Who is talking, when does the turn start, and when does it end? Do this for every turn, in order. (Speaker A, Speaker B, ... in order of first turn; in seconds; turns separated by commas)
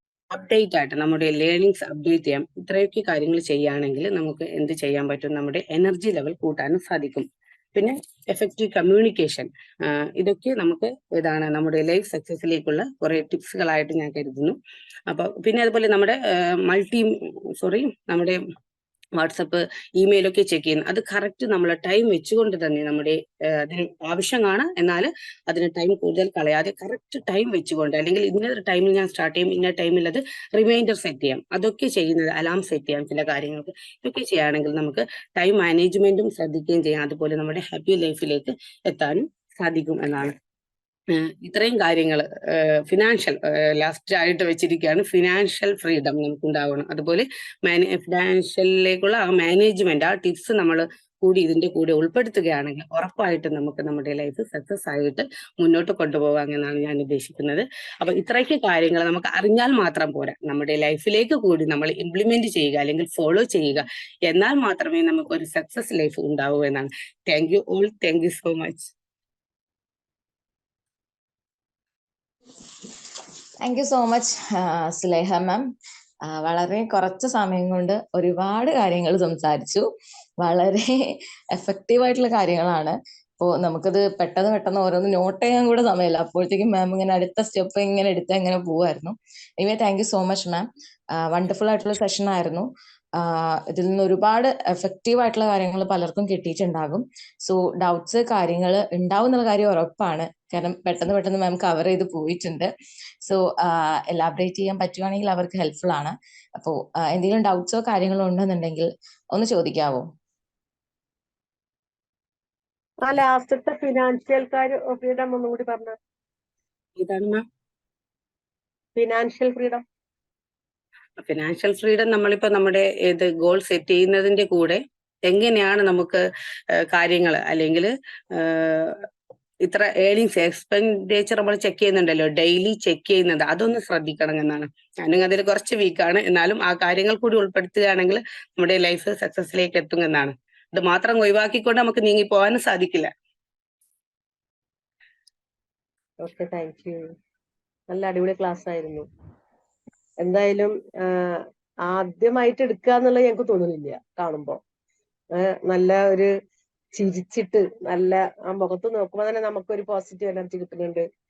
Speaker A: 0.3-14.6, Speaker A: 15.1-18.4, Speaker A: 19.2-40.3, Speaker A: 41.1-68.9, Speaker B: 73.6-75.7, Speaker B: 76.3-79.9, Speaker B: 80.4-90.7, Speaker B: 91.2-102.7, Speaker B: 103.2-110.1, Speaker C: 113.0-116.0, Speaker A: 117.0-117.4, Speaker C: 119.0-119.8, Speaker A: 121.2-126.2, Speaker A: 126.8-129.0, Speaker A: 129.7-143.1, Speaker C: 146.2-147.0, Speaker C: 147.9-149.1, Speaker C: 150.2-154.6, Speaker C: 155.4-156.3, Speaker C: 156.9-161.1